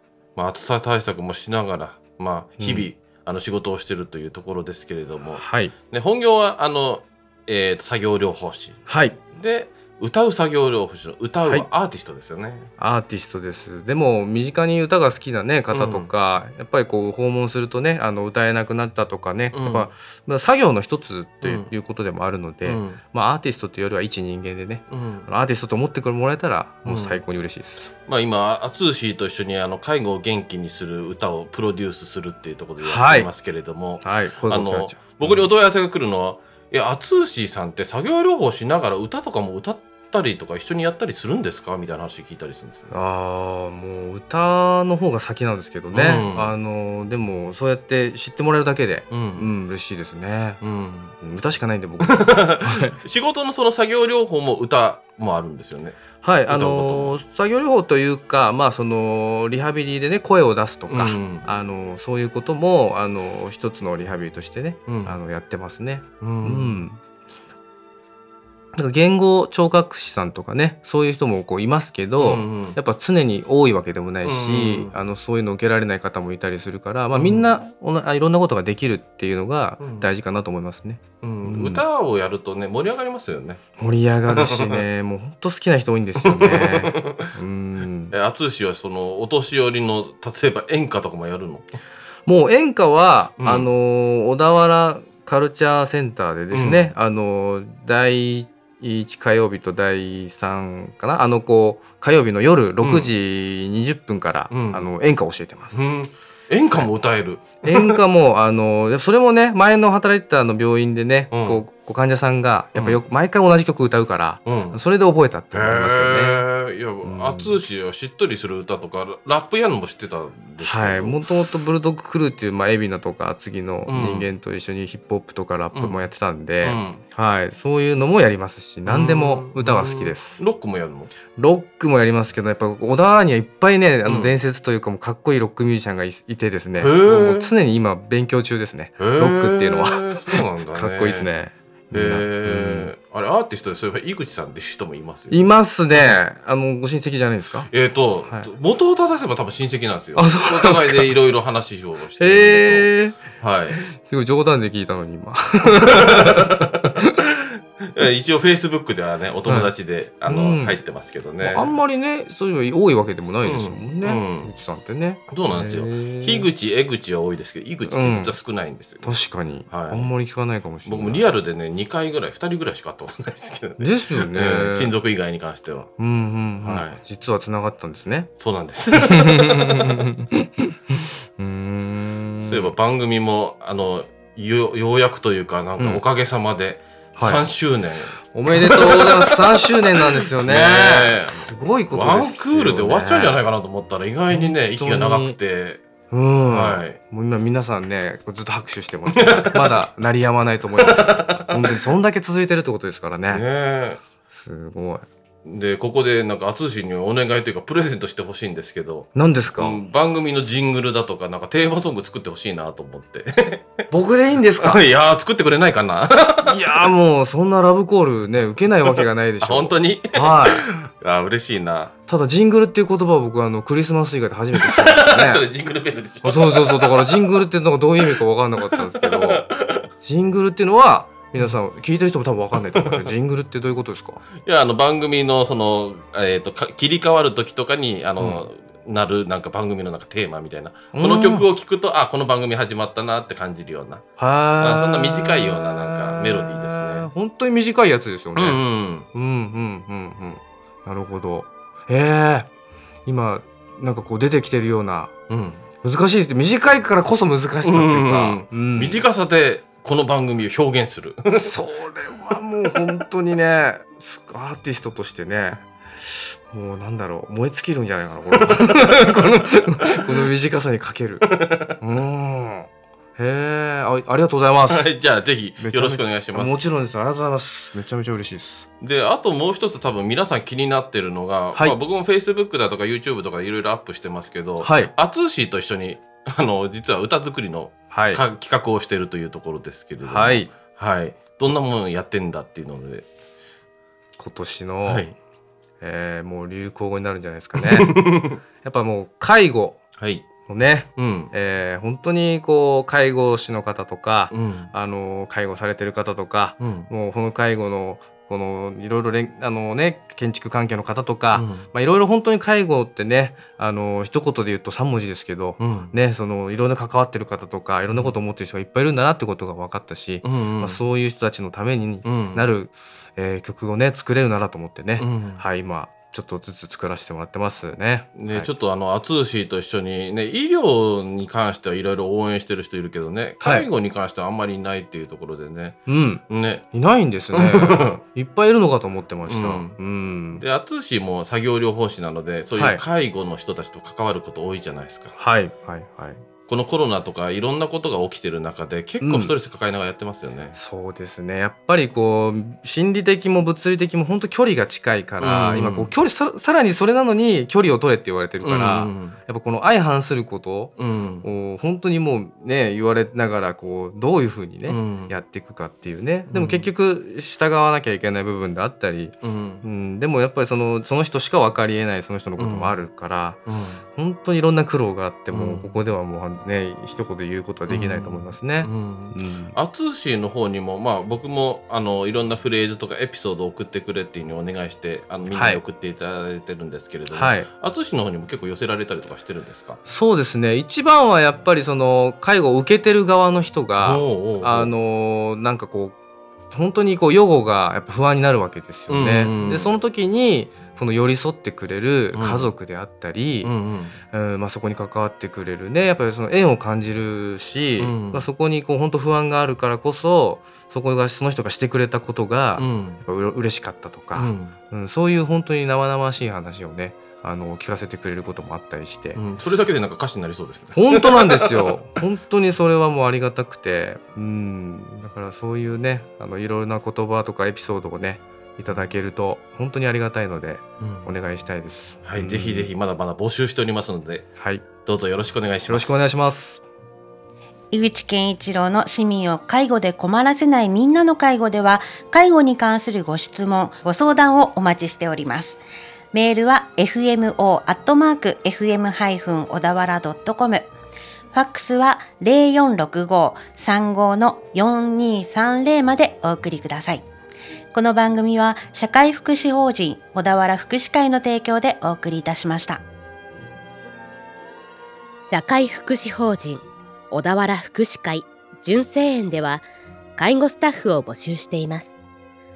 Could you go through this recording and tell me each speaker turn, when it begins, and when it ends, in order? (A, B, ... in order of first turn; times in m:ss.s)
0:00.4-0:08.8 A
0:02.6-0:02.9 B
0:05.4-0:05.7 B
0:08.9-0:09.2 B
0:09.3-0:12.7 A
0:12.8-0:27.9 B
0:15.7-0:16.1 A
0:19.5-0:19.9 A
0:21.4-0:21.7 A
0:22.6-0:23.0 A
0:24.9-0:25.3 A
0:26.9-0:27.2 A
0:28.1-0:43.0 A
0:32.8-0:33.3 B
0:34.0-0:35.5 B
0:42.9-0:50.6 B
0:45.9-0:46.5 A
0:49.1-0:49.5 A
0:50.6-0:51.1 A
0:51.2-0:53.0 B
0:52.0-0:57.2 A
0:56.2-1:07.0 B
1:00.9-1:01.5 A
1:04.9-1:05.2 A
1:06.2-1:06.8 A
1:08.8-1:21.8 B
1:12.2-1:12.8 A
1:14.2-1:15.0 A
1:17.1-1:17.6 A
1:19.8-1:20.1 A
1:21.2-1:23.6 A
1:23.8-1:28.1 B
1:24.3-1:24.8 A
1:26.2-1:27.3 A
1:28.1-1:31.7 A
1:32.3-1:45.9 B
1:33.4-1:33.7 A
1:36.5-1:36.9 A
1:42.8-1:43.1 A
1:44.5-1:44.9 A
1:45.7-1:48.0 A
1:47.6-1:56.5 B
1:51.3-1:51.6 A
1:52.8-1:53.0 A
1:54.4-1:54.8 A
1:55.5-2:01.3 A
1:57.0-1:57.6 B
2:00.6-2:10.4 B
2:03.9-2:04.3 A
2:05.7-2:06.0 A
2:06.6-2:07.0 A
2:08.9-2:11.1 A
2:11.4-2:22.9 B
2:14.0-2:14.3 A
2:16.8-2:17.5 A
2:19.0-2:21.3 A
2:21.9-2:26.2 A
2:25.3-2:27.7 B
2:27.7-2:33.8 A
2:30.2-2:31.1 B
2:32.2-2:37.1 B
2:35.8-2:37.3 A
2:37.8-2:41.8 A
2:39.5-2:39.7 B
2:40.3-2:40.8 B
2:41.4-2:46.5 B
2:43.4-2:44.5 A
2:45.3-2:50.1 A
2:47.9-2:48.4 B
2:49.0-2:51.3 B
2:50.8-2:55.9 A
2:53.8-2:55.0 B
2:56.0-2:58.3 B
2:56.6-2:57.0 A
2:58.4-2:59.9 A
2:58.9-3:02.7 B
3:02.5-3:15.8 A
3:05.8-3:06.0 B
3:07.2-3:07.4 B
3:08.3-3:13.4 B
3:14.3-3:15.4 B
3:16.1-3:23.4 B
3:16.5-3:17.0 A
3:19.1-3:19.8 A
3:20.8-3:21.9 A
3:23.3-3:24.0 A
3:24.3-3:25.1 B
3:25.4-3:33.7 A
3:29.2-3:29.8 B
3:33.9-3:34.8 B
3:34.6-3:36.9 A
3:36.4-3:40.7 B
3:38.9-3:41.9 A
3:42.1-3:45.5 B
3:44.5-3:47.5 A
3:46.2-3:49.5 B
3:48.1-3:49.9 A
3:50.0-3:54.2 B
3:52.8-3:53.1 A
3:54.4-4:04.0 A
3:58.2-3:58.4 B
4:00.9-4:01.5 B
4:04.2-4:08.6 B
4:04.6-4:07.1 A
4:08.4-4:09.1 A
4:09.1-4:12.5 B
4:13.1-4:15.1 B
4:15.3-4:15.6 A
4:15.8-4:19.0 B
4:17.6-4:21.5 A
4:21.3-4:25.6 B
4:26.5-4:31.3 B
4:28.3-4:29.4 A
4:31.2-4:31.7 A
4:31.8-4:34.9 B
4:34.7-4:36.6 A
4:35.6-4:38.7 B
4:38.8-4:53.1 A
4:44.6-4:44.9 B
4:47.9-4:48.2 B
4:50.0-4:50.5 B
4:54.2-4:55.1 B
4:54.8-4:55.2 A
4:55.8-4:58.0 B
4:57.6-4:58.4 A
4:58.6-4:59.8 B
5:00.0-5:00.3 A
5:00.5-5:28.5 B
5:01.0-5:01.3 A
5:04.3-5:04.7 A
5:06.6-5:06.9 A
5:11.3-5:11.6 A
5:15.6-5:15.9 A
5:20.2-5:20.8 A
5:22.0-5:22.5 A
5:25.0-5:25.4 A
5:28.2-5:35.8 A
5:33.4-5:33.7 B
5:35.9-5:40.4 B
5:36.3-5:36.6 A
5:37.3-5:38.0 A
5:39.3-5:39.8 A
5:40.4-5:45.1 A
5:42.6-5:42.8 B
5:45.2-5:46.2 B
5:46.5-5:50.6 A
5:49.0-5:49.4 B
5:50.5-6:13.4 B
5:55.2-5:55.9 A
5:58.4-5:59.2 A
6:00.8-6:01.3 A
6:04.7-6:05.1 A
6:06.3-6:06.7 A
6:09.2-6:09.6 A
6:12.4-6:12.8 A
6:13.5-6:13.8 A
6:14.0-6:19.6 B
6:15.3-6:15.8 A
6:17.7-6:29.8 A
6:25.3-6:25.6 B
6:27.1-6:27.5 B
6:29.9-6:36.0 B
6:33.8-6:34.7 A
6:36.5-6:43.5 B
6:38.9-6:39.8 A
6:42.2-6:42.5 A
6:43.4-6:44.0 A
6:44.1-6:59.2 B
6:47.8-6:48.3 A
6:52.6-6:53.0 A
6:54.1-6:54.6 A
6:59.2-7:01.7 A
7:00.8-7:12.7 B
7:10.8-7:11.1 A
7:12.0-7:14.3 A
7:14.4-7:14.7 B
7:14.8-7:16.0 A
7:15.7-7:16.6 B
7:17.7-7:25.6 C
7:26.1-7:30.7 C
7:31.3-7:37.0 C
7:37.7-7:42.8 C
7:45.3-7:49.6 D
7:50.2-7:51.9 D